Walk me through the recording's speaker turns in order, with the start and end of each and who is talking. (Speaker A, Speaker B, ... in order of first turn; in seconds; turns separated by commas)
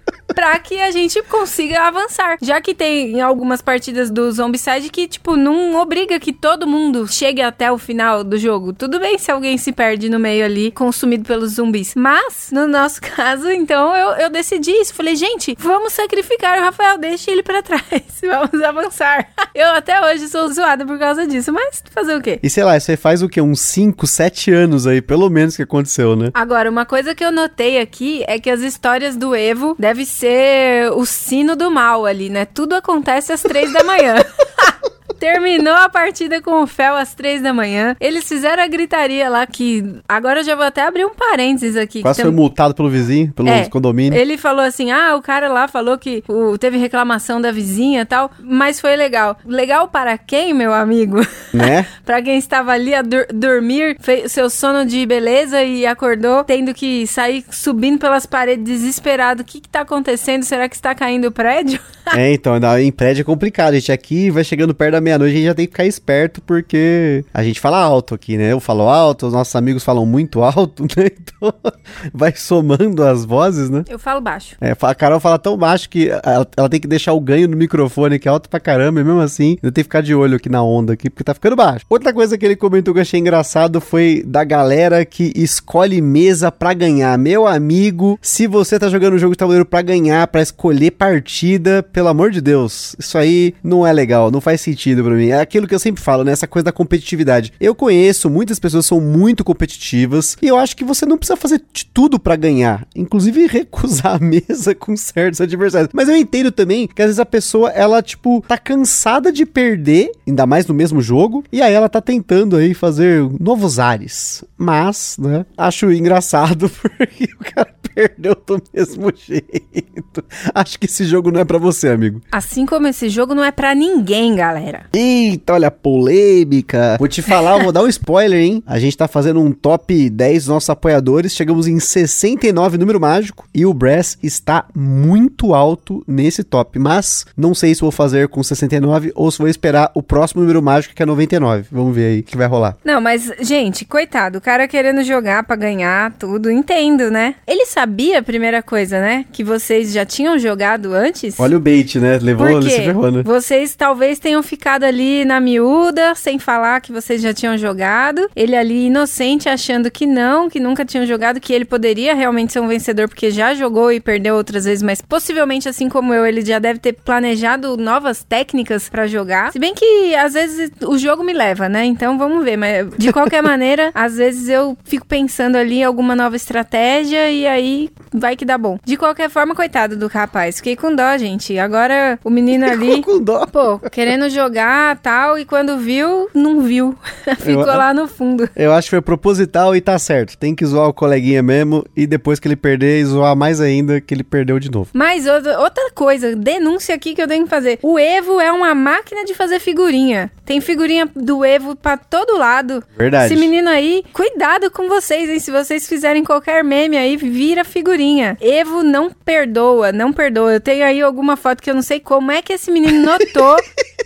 Speaker A: 0.3-22.4, Speaker B: 22.4-26.3, Speaker A: 26.4-42.4, Speaker B: 42.0-44.2, Speaker A: 43.5-62.2, Speaker B: 51.5-51.9, Speaker B: 62.1-73.9, Speaker A: 73.9-74.6, Speaker B: 74.6-122.2, Speaker A: 122.3-124.9, Speaker B: 124.9-142.8, Speaker A: 142.8-151.5, Speaker B: 151.4-153.3, Speaker A: 152.4-188.5, Speaker B: 182.6-183.9, Speaker B: 187.4-187.8, Speaker B: 188.6-194.9, Speaker A: 194.9-213.6, Speaker B: 203.0-203.5